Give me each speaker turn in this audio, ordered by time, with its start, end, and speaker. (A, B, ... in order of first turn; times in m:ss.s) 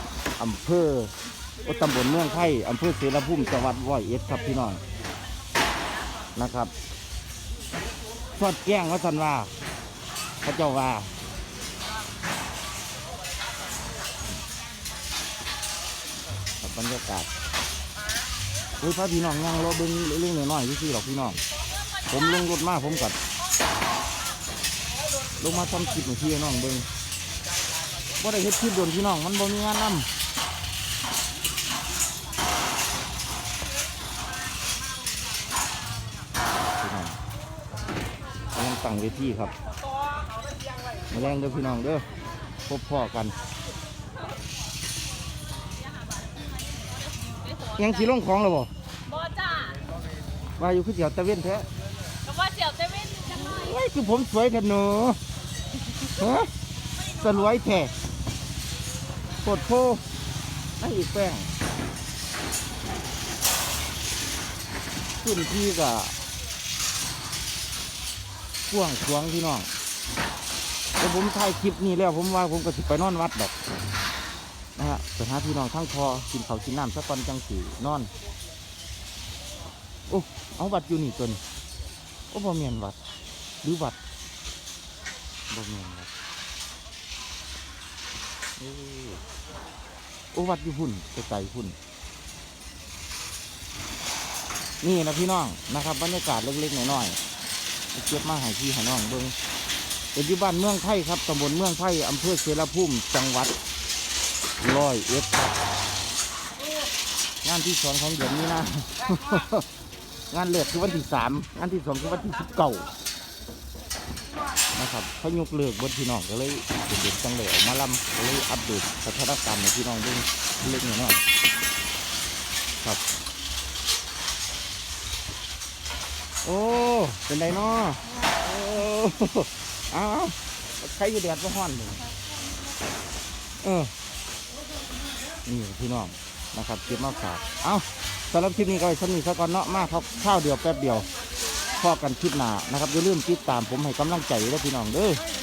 0:00.4-0:04.8 A
0:06.4-0:06.7 A
0:08.4-0:09.5 A
0:10.4-0:11.1 A
0:16.6-0:17.3 A
0:18.8-0:21.4 A
0:22.1-0:23.2 A
0:25.4-0:26.9 A
0:28.2-0:30.1 A
0:36.8-0:37.2 A
0:38.5-0:39.5 A
0:41.1-0:42.1 A
0:42.7-0:43.4 A
0:45.8-0:48.1 B
0:47.8-0:48.7 A
0:49.1-0:49.8 B
0:50.6-0:51.7 A
0:52.2-0:53.8 B
0:53.3-0:55.2 A
0:56.1-0:56.5 A
0:57.1-0:57.9 A
0:59.4-1:00.0 A
1:00.8-1:01.5 A
1:05.2-1:06.1 A
1:08.7-1:09.7 A
1:11.0-1:13.5 A
1:14.8-1:18.1 A
1:20.1-1:21.4 A
1:22.3-1:23.0 A
1:23.6-1:24.0 A
1:25.5-1:26.1 A
1:28.6-1:29.2 A
1:30.3-1:31.8 A
1:34.8-1:37.2 A
1:37.9-1:39.4 A
1:40.1-1:43.5 A
1:44.6-1:45.6 A
1:47.4-1:49.7 A
1:50.3-1:52.9 A
1:54.7-2:01.2 A
2:06.4-2:12.0 A
2:13.6-2:13.9 A
2:15.4-2:21.1 A
2:21.8-2:25.2 A